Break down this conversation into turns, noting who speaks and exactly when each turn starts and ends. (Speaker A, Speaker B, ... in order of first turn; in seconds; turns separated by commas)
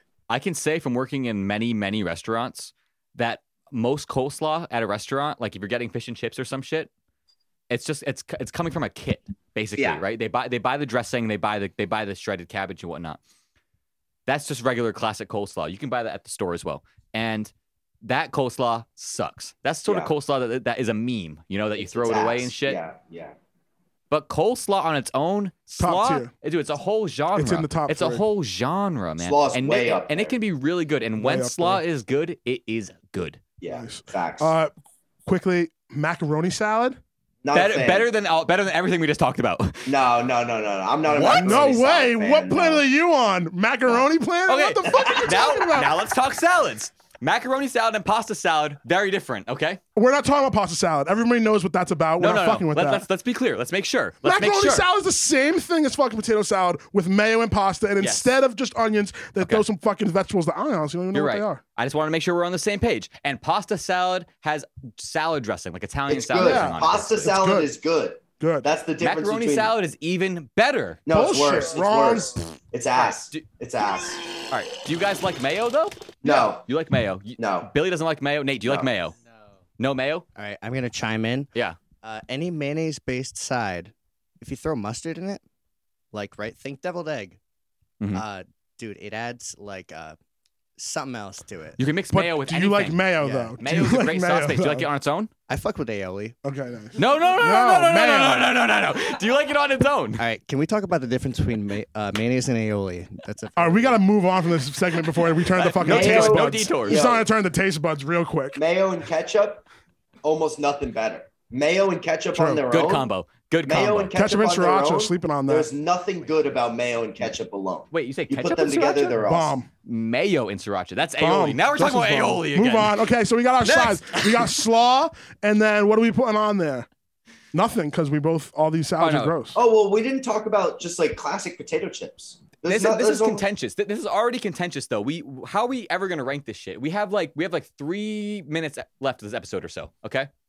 Speaker A: 0.3-6.9, Speaker A: 7.7-13.2, Speaker B: 9.8-10.0, Speaker A: 14.3-17.5, Speaker A: 18.0-22.8, Speaker B: 19.9-20.1, Speaker B: 21.8-23.4, Speaker A: 24.1-33.4, Speaker C: 25.8-26.3, Speaker C: 27.3-28.2, Speaker B: 29.2-30.4, Speaker C: 31.2-31.8, Speaker B: 33.6-34.5, Speaker C: 33.7-34.7, Speaker C: 35.2-37.0, Speaker B: 37.4-38.1, Speaker A: 37.5-39.9, Speaker B: 39.9-42.8, Speaker A: 41.0-41.7, Speaker C: 41.3-46.0, Speaker A: 44.5-49.8, Speaker C: 50.0-53.0, Speaker A: 52.2-54.8, Speaker C: 54.2-61.6, Speaker A: 58.0-58.4, Speaker A: 61.1-67.3, Speaker B: 66.1-69.7, Speaker C: 66.3-67.7, Speaker C: 68.4-68.7, Speaker A: 69.0-71.0, Speaker B: 71.0-74.2, Speaker C: 71.1-72.4, Speaker A: 73.0-73.4, Speaker A: 74.5-79.2, Speaker B: 76.2-76.7, Speaker B: 77.4-77.7, Speaker B: 78.6-78.9, Speaker A: 79.8-80.2, Speaker D: 80.3-81.5, Speaker D: 82.0-85.4, Speaker D: 86.1-87.4, Speaker D: 88.1-90.2, Speaker D: 90.8-91.8, Speaker A: 91.8-93.0, Speaker C: 92.1-94.9, Speaker D: 93.2-93.5, Speaker A: 93.6-95.3, Speaker D: 95.5-96.3, Speaker C: 96.4-98.5, Speaker A: 97.0-100.2, Speaker D: 100.2-104.0, Speaker C: 103.6-108.6, Speaker A: 105.4-107.1, Speaker B: 105.8-107.2, Speaker B: 108.5-109.7, Speaker B: 110.2-113.1, Speaker C: 112.3-112.6, Speaker A: 112.7-114.1, Speaker B: 113.6-119.6, Speaker C: 114.1-115.7, Speaker A: 117.9-119.2, Speaker C: 119.2-119.7, Speaker A: 119.8-123.0, Speaker C: 121.2-126.9, Speaker A: 123.6-124.5, Speaker C: 127.5-129.6, Speaker A: 129.0-129.3, Speaker B: 129.5-133.4, Speaker A: 132.6-140.3